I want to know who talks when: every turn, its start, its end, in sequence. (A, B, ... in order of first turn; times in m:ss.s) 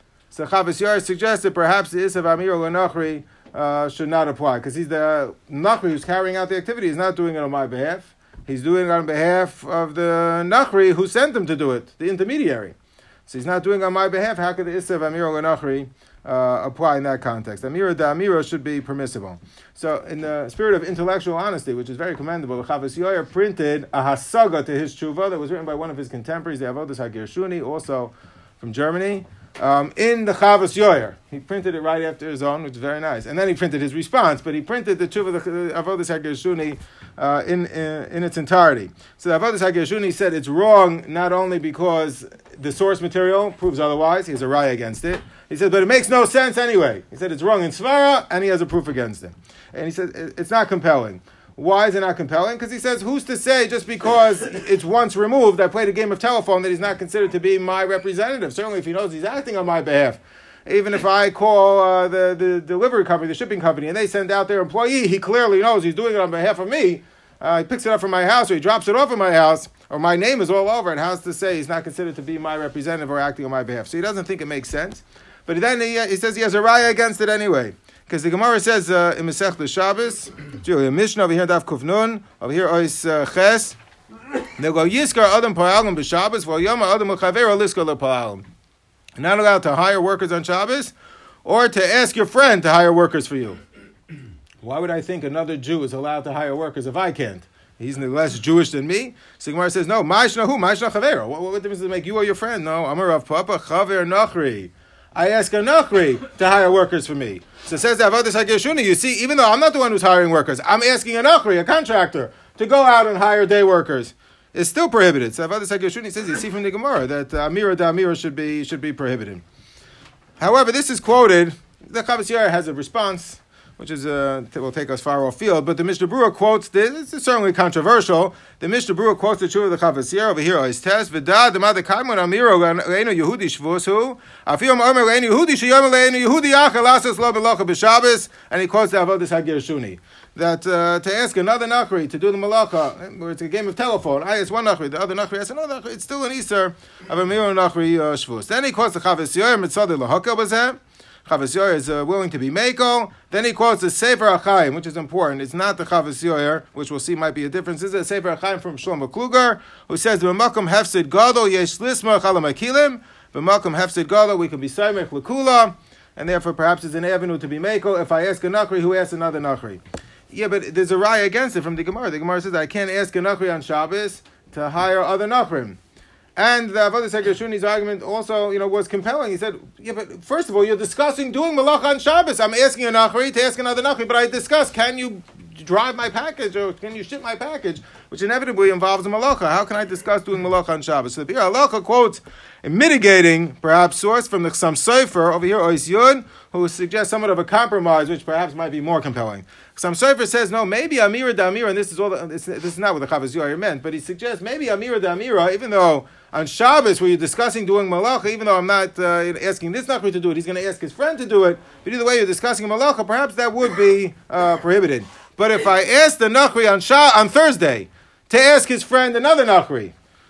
0:00.3-0:12.7 A
0:13.3-1:23.8 A
1:24.6-1:28.4 A
1:29.2-1:30.9 A
1:31.4-1:33.6 A
1:34.6-1:59.4 A
2:00.4-2:55.8 A
2:56.4-3:39.9 A